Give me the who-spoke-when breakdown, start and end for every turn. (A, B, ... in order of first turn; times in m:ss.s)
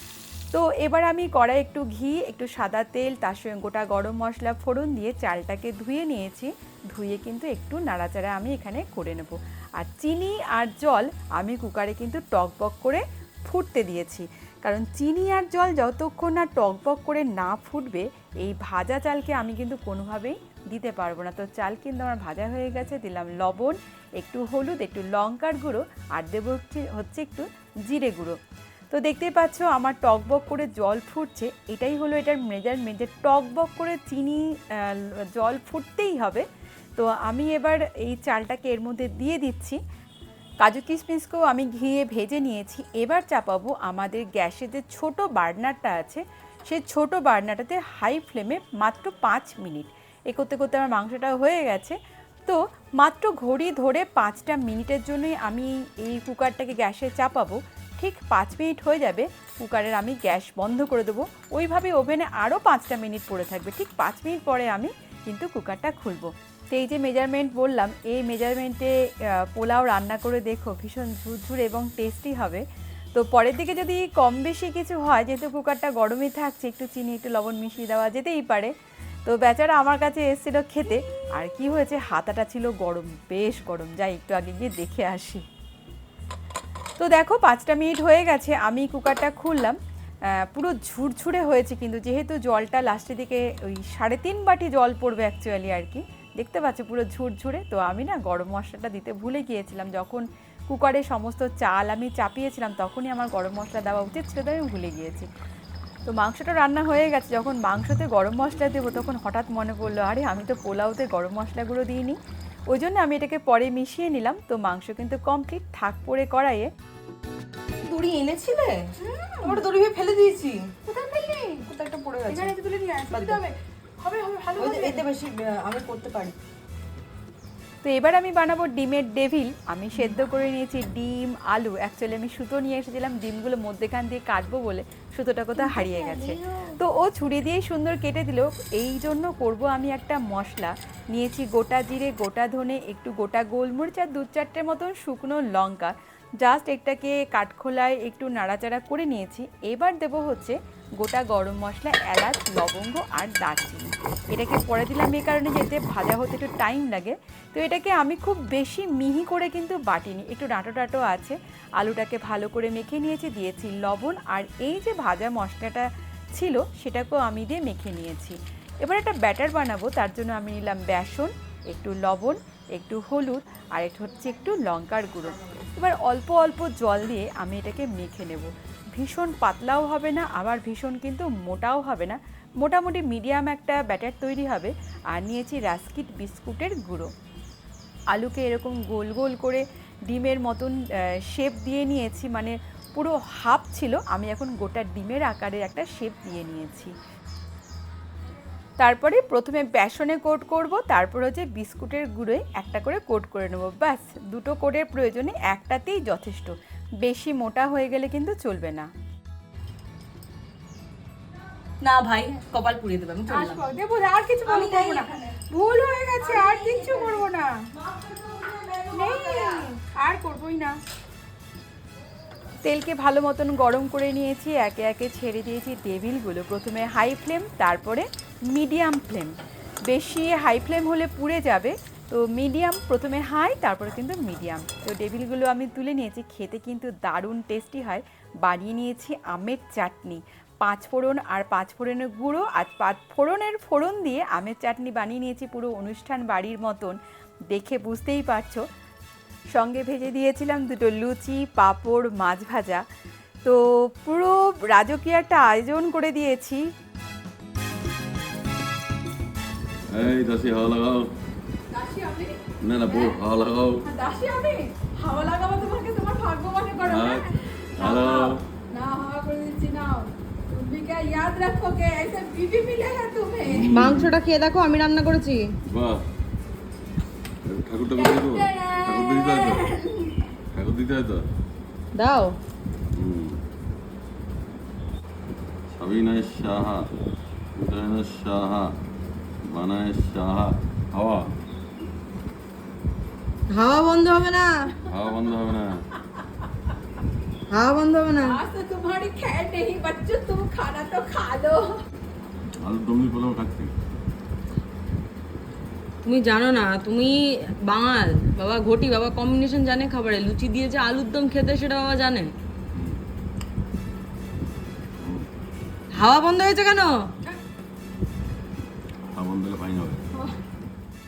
0:00.5-0:28.4 A
0:28.9-0:36.4 A
0:37.0-0:39.8 A
0:40.6-1:12.6 A
1:13.1-1:18.7 A
1:19.2-1:25.4 A
1:27.0-1:29.8 A
1:30.3-1:45.3 A
1:46.1-1:52.2 A
1:52.7-1:56.7 A
1:57.8-2:00.7 B
1:59.0-1:59.6 C
2:00.8-2:01.7 C
2:01.7-2:02.5 B
2:02.2-2:05.0 C
2:03.1-2:03.4 B
2:04.6-2:06.4 B
2:07.8-3:07.1 A
2:15.7-2:16.4 B
3:08.1-3:16.9 A
3:18.8-3:28.9 A
3:31.8-3:33.6 B
3:33.3-3:37.5 C
3:34.4-3:35.3 B
3:36.2-3:39.7 B
3:38.9-3:40.7 C
3:42.6-3:49.3 A
3:49.8-4:07.0 A
4:07.5-4:08.6 A
4:09.5-4:12.8 A
4:13.4-4:16.6 A
4:19.9-4:21.1 D
4:21.7-4:22.4 C
4:22.6-4:23.8 D
4:22.9-4:23.2 C
4:23.8-4:33.7 C
4:26.8-4:28.4 D
4:33.4-4:34.1 D
4:33.7-4:35.5 B
4:35.7-4:36.0 D
4:37.5-4:39.8 D
4:38.0-4:40.1 C
4:40.5-4:41.2 D
4:41.9-4:42.4 B
4:43.0-4:43.4 D
4:45.7-4:46.8 D
4:47.6-4:48.7 D
4:49.5-4:51.3 D
4:53.5-4:54.7 B
4:54.9-4:55.7 D
4:57.5-4:58.4 B
4:58.5-4:59.3 C
4:58.5-5:01.5 A
4:59.8-5:01.5 C
5:02.6-5:03.7 D
5:06.0-5:12.3 B
5:15.0-5:15.3 D
5:15.9-5:17.1 B
5:19.1-5:20.0 D